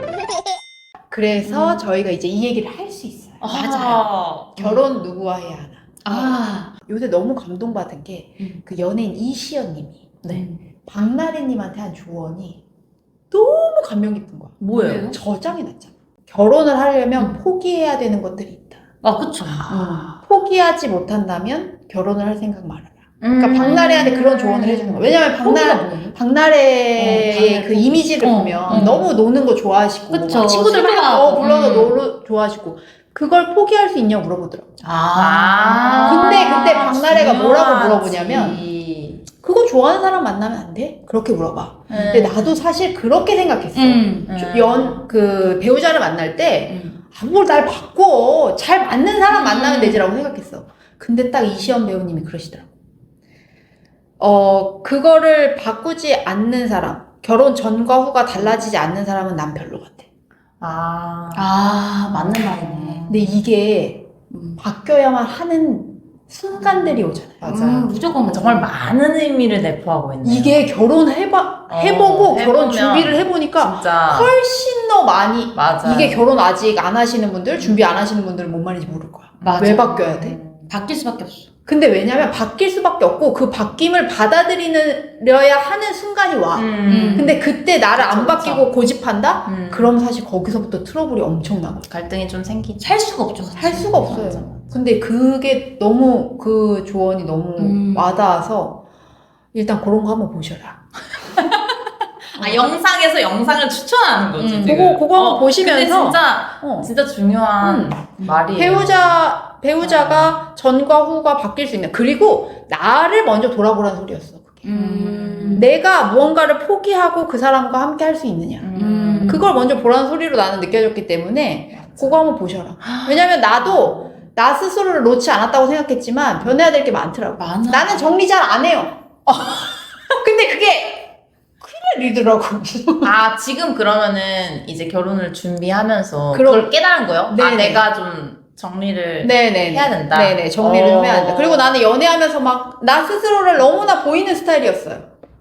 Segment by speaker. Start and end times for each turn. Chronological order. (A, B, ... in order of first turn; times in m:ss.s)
0:01.1-0:03.5 A
0:01.4-0:01.8 B
0:03.4-0:04.5 C
0:03.5-0:04.9 B
0:04.6-0:10.1 A
0:06.0-0:06.7 B
0:10.3-0:10.6 B
0:10.8-0:12.6 A
0:13.3-0:18.8 A
0:14.6-0:15.2 B
0:14.7-0:15.1 C
0:19.0-0:20.0 B
0:19.4-0:20.2 C
0:19.7-0:34.7 A
0:23.2-0:24.1 C
0:23.5-0:26.2 B
0:26.9-0:29.1 B
0:28.7-0:29.1 C
0:30.1-0:32.0 B
0:31.4-0:31.8 C
0:34.8-0:36.9 B
0:35.2-0:38.7 C
0:36.0-0:38.6 A
0:38.2-0:39.2 B
0:39.3-0:52.6 A
0:41.9-0:42.3 C
0:41.9-0:42.5 B
0:43.7-0:44.3 B
0:44.3-0:45.0 C
0:46.7-0:47.0 B
0:49.3-0:50.0 B
0:54.2-1:00.0 A
0:58.3-0:58.6 B
1:00.6-1:01.5 C
1:01.3-1:03.0 B
1:02.1-1:03.3 C
1:03.1-1:04.1 A
1:04.3-1:04.6 B
1:04.6-1:07.6 A
1:06.6-1:08.7 B
1:07.4-1:10.6 C
1:10.2-1:20.4 A
1:11.7-1:14.3 C
1:15.5-1:16.2 C
1:19.4-1:20.1 B
1:19.4-1:20.7 C
1:20.7-1:21.5 B
1:21.6-1:31.8 A
1:26.5-1:27.4 C
1:26.9-1:27.4 B
1:27.9-1:28.7 C
1:29.5-1:29.9 C
1:31.8-1:32.9 C
1:32.8-1:34.5 B
1:33.6-1:38.8 A
1:34.1-1:34.6 C
1:37.6-1:38.1 B
1:39.5-1:40.8 A
1:41.3-1:41.7 C
1:42.3-1:49.2 C
1:42.4-1:42.7 B
1:44.4-1:44.9 B
1:44.6-1:46.9 A
1:47.6-1:54.8 A
1:48.2-1:48.6 B
1:49.8-1:50.4 C
1:54.6-1:55.7 B
1:54.8-1:55.6 C
1:55.5-1:58.7 A
1:58.6-1:59.4 C
1:58.7-1:59.5 B
1:59.2-2:09.0 A
2:01.7-2:02.2 C
2:02.8-2:04.1 C
2:07.4-2:08.1 B
2:09.3-2:09.8 C
2:10.2-2:13.1 A
2:13.0-2:21.8 C
2:16.3-2:16.7 A
2:17.3-2:17.8 A
2:19.2-2:25.1 A